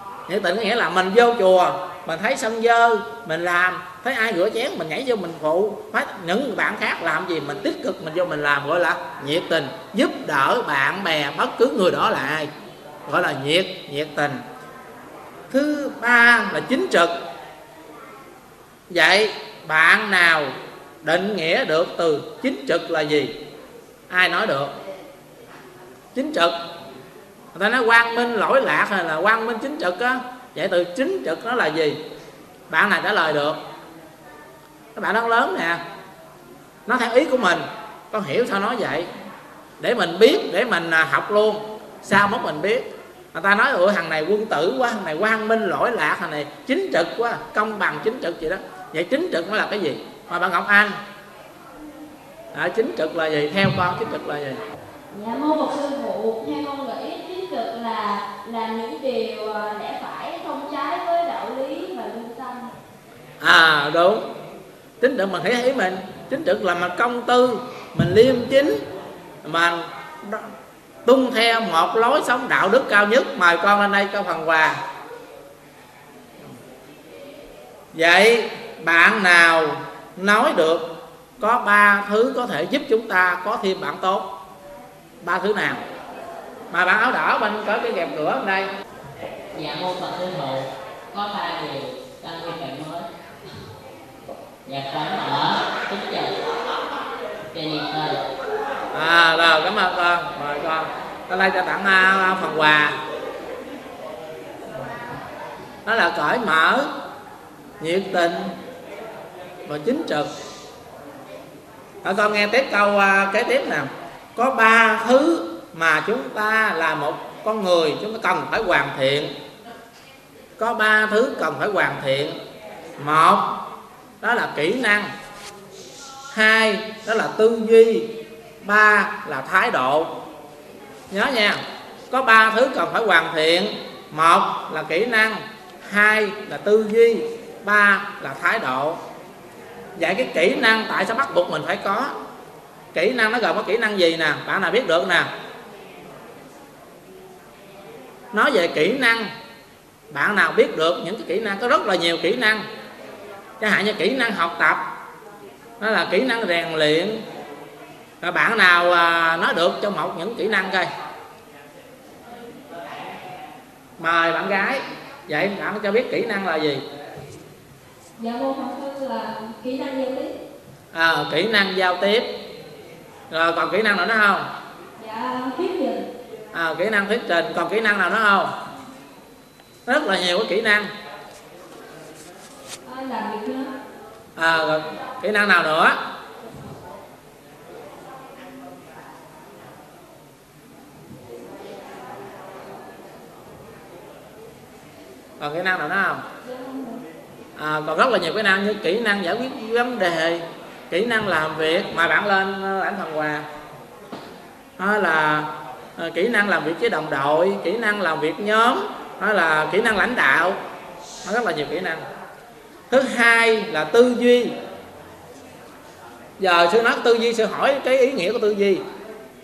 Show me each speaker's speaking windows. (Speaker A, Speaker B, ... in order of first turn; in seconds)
Speaker A: 0.3-12.5, 13.1-14.4, 15.5-17.1, 18.9-23.4, 24.1-24.7, 26.1-26.6, 27.5-32.0, 32.7-33.6, 35.0-35.8, 36.9-39.1, 39.8-51.0, 52.5-54.6, 63.4-64.3, 65.0-68.8, 69.4-70.5, 71.0-74.8, 77.9-84.3, 85.2-85.8, 86.7-88.7, 98.9-103.0, 105.9-106.9, 107.8-108.5, 109.7-110.3, 112.0-119.4, 120.6-122.4, 123.0-123.6, 124.2-125.1, 126.3-128.1, 128.6-130.2, 131.1-139.0, 139.9-142.1, 142.9-145.3, 148.3-149.3, 150.1-152.7, 153.6-154.9, 155.8-157.2, 158.2-160.9, 164.0-166.8, 170.9-172.3, 173.3-174.5, 176.5-178.5, 179.9-180.9, 184.4-186.0, 195.4-196.2, 197.6-203.4, 204.8-210.6, 211.2-212.0, 212.9-214.5, 216.4-218.8
Speaker B: 55.1-62.7, 168.2-170.3, 175.0-176.1, 182.8-183.7, 196.4-197.0
Speaker C: 89.5-93.1, 94.6-96.3, 97.5-98.2